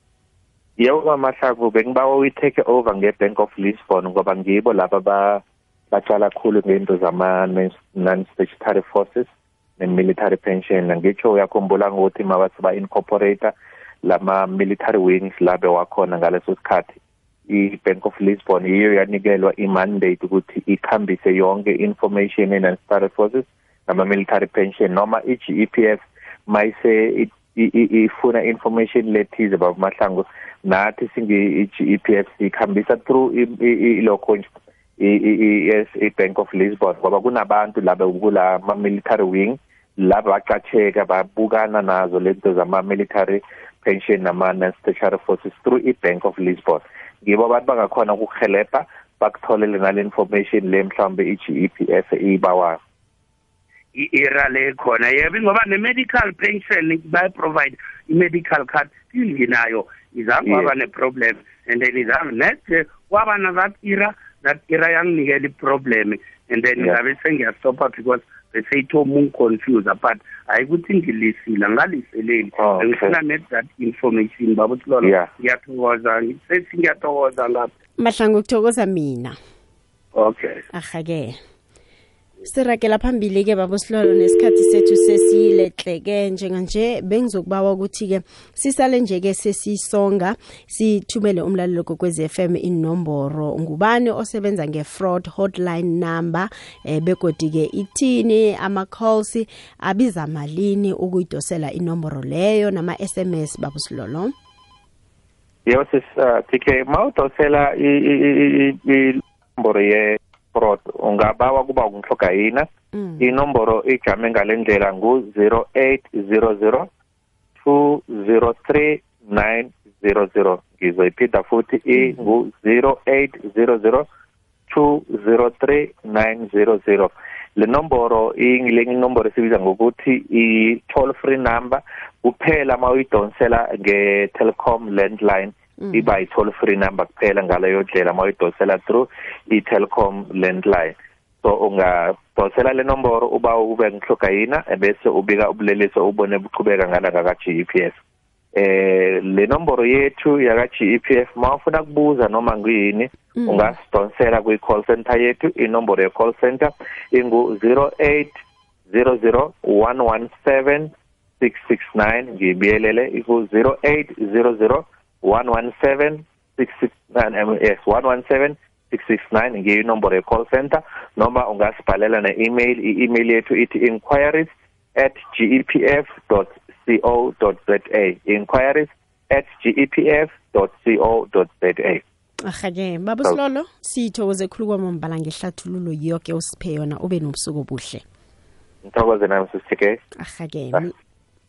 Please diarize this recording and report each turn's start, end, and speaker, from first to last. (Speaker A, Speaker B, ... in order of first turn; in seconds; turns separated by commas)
Speaker A: 0.8-13.5, Speaker A: 14.0-17.0, Speaker A: 17.5-34.5, Speaker A: 35.0-52.8, Speaker B: 53.9-77.7, Speaker A: 60.5-60.7, Speaker A: 72.6-73.2, Speaker A: 75.0-75.3, Speaker C: 78.0-79.4, Speaker B: 80.2-80.6, Speaker C: 80.7-81.4, Speaker C: 82.4-104.3, Speaker A: 105.7-112.7, Speaker C: 112.9-113.3, Speaker A: 113.2-116.9, Speaker A: 117.6-124.1, Speaker A: 124.7-148.0, Speaker C: 135.8-136.1, Speaker A: 148.5-158.4, Speaker C: 153.4-153.7, Speaker A: 158.9-182.0, Speaker C: 182.4-188.0, Speaker A: 188.8-190.0, Speaker C: 190.2-190.9